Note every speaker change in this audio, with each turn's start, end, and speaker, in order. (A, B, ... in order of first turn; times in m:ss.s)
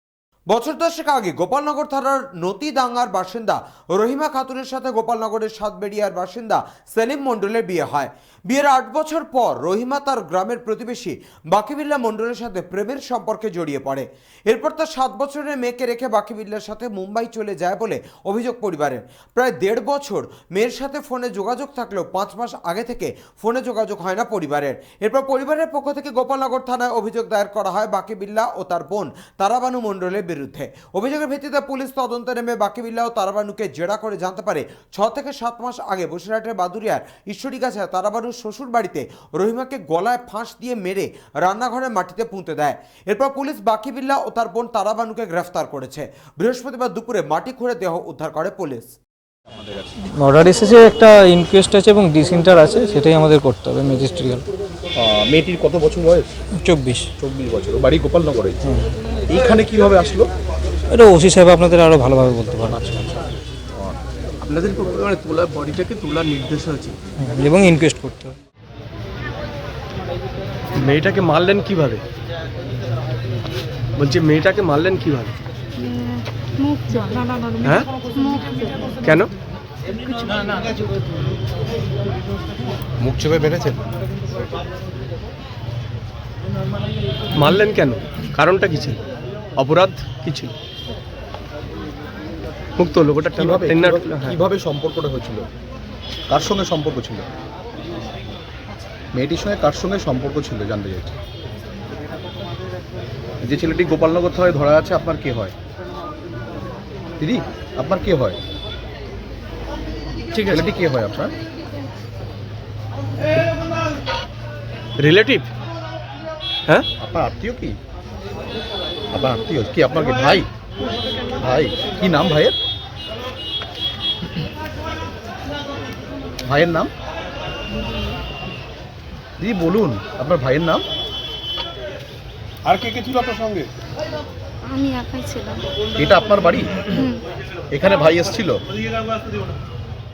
0:00.5-0:49.0 A
0:50.2-0:54.4 B
0:55.0-0:56.3 C
0:56.6-0:57.1 B
0:57.2-0:58.6 C
0:59.3-1:00.3 C
1:00.9-1:02.8 B
1:02.7-1:03.2 C
1:03.7-1:04.0 C
1:04.4-1:07.0 D
1:07.2-1:08.4 B
1:10.8-1:12.0 D
1:14.0-1:15.4 D
1:15.8-1:17.2 E
1:17.6-1:17.9 D
1:18.1-1:19.0 E
1:19.0-1:19.3 D
1:23.0-1:23.8 C
1:27.4-1:29.0 D
1:29.6-1:30.5 D
1:32.8-1:34.4 D
1:33.3-1:35.5 C
1:36.3-1:37.3 C
1:39.1-1:41.2 C
1:43.4-1:45.5 C
1:47.2-1:48.4 C
1:50.4-1:50.7 D
1:50.5-1:51.4 C
1:55.0-1:55.5 D
1:57.0-1:57.8 C
1:59.1-2:00.5 C
2:01.4-2:02.6 C
2:06.4-2:06.9 C
2:09.4-2:10.8 C
2:14.6-2:15.6 E
2:16.0-2:16.9 C
2:16.9-2:17.2 E
2:17.7-2:18.6 C